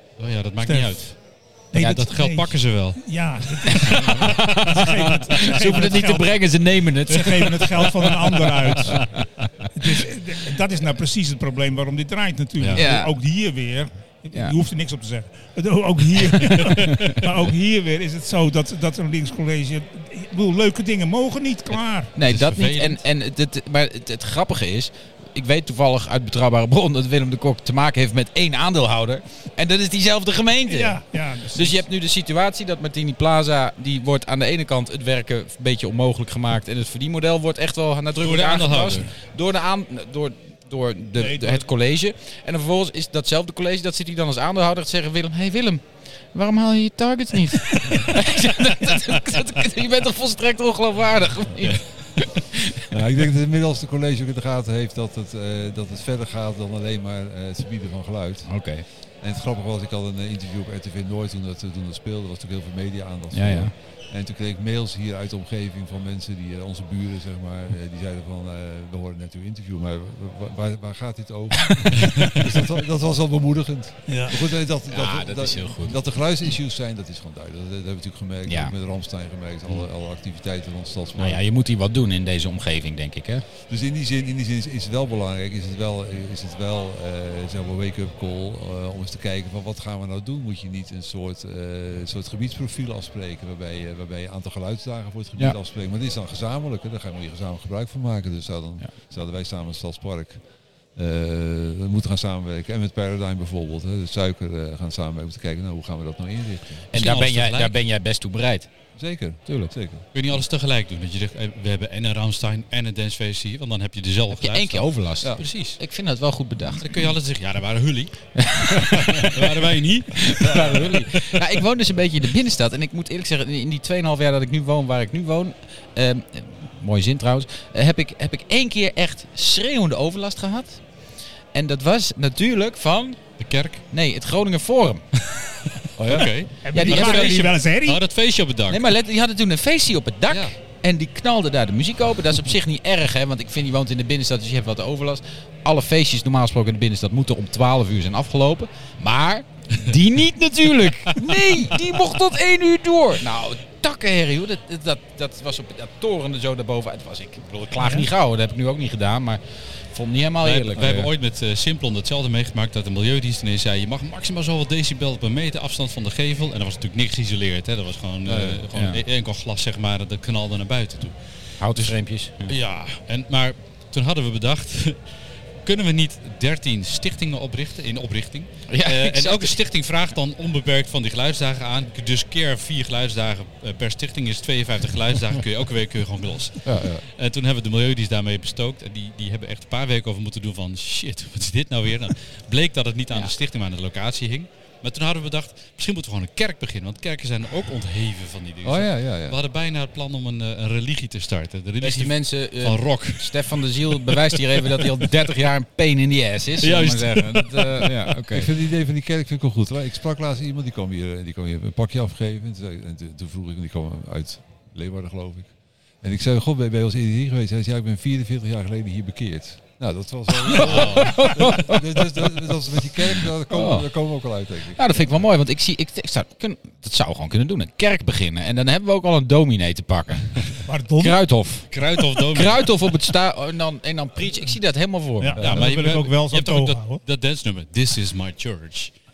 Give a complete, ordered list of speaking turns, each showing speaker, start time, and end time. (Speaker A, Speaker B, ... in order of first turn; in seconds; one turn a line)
Speaker A: 0.2-5.9
Speaker B: 0.6-1.2
Speaker B: 1.7-22.1
Speaker C: 3.8-7.7
Speaker A: 7.8-9.5
Speaker C: 12.7-13.1
Speaker C: 16.4-17.2
Speaker C: 22.1-52.9
Speaker A: 22.2-23.0
Speaker B: 30.7-31.8
Speaker A: 38.2-39.1
Speaker B: 41.2-41.7
Speaker D: 52.9-81.4
Speaker C: 58.5-58.9
Speaker C: 63.3-63.7
Speaker B: 74.1-74.4
Speaker C: 74.9-76.0
Speaker C: 78.5-78.7
Speaker C: 81.2-83.5
Speaker D: 83.7-100.4
Speaker D: 101.0-106.9
Speaker C: 106.9-108.7
Speaker A: 106.9-107.8
Speaker D: 109.0-110.0
Speaker C: 109.5-109.7
Speaker A: 110.1-115.8
Speaker C: 114.3-116.9
Speaker A: 116.7-118.4
Speaker C: 118.4-119.4
Speaker A: 118.9-121.5
Speaker C: 120.2-130.8
Speaker D: 120.4-120.9
Speaker C: 131.5-133.2
Speaker A: 133.4-133.8
Speaker C: 133.9-135.1
Speaker D: 136.0-136.3
Speaker A: 136.0-138.8
Speaker B: 136.6-138.0
Speaker C: 136.7-137.5
Speaker C: 138.7-161.1
Speaker B: 157.8-158.1
Speaker A: 160.4-171.2
Speaker D: 160.8-161.1
Speaker D: 168.3-168.6
Speaker C: 168.7-169.0
Speaker C: 171.6-172.5
Speaker A: 172.5-175.0
Speaker A: 175.6-204.9
Speaker C: 178.7-179.6
Speaker C: 186.7-187.0
Speaker D: 198.6-199.4
Speaker C: 201.8-208.5
Speaker A: 206.6-207.9
Speaker D: 208.3-225.1
Speaker C: 220.5-222.4
Speaker A: 220.6-221.5
Speaker C: 223.5-223.9
Speaker C: 224.7-235.4
Speaker B: 230.7-231.2
Speaker A: 231.7-232.7
Speaker B: 235.2-237.0
Speaker D: 235.4-235.7
Speaker A: 235.4-238.9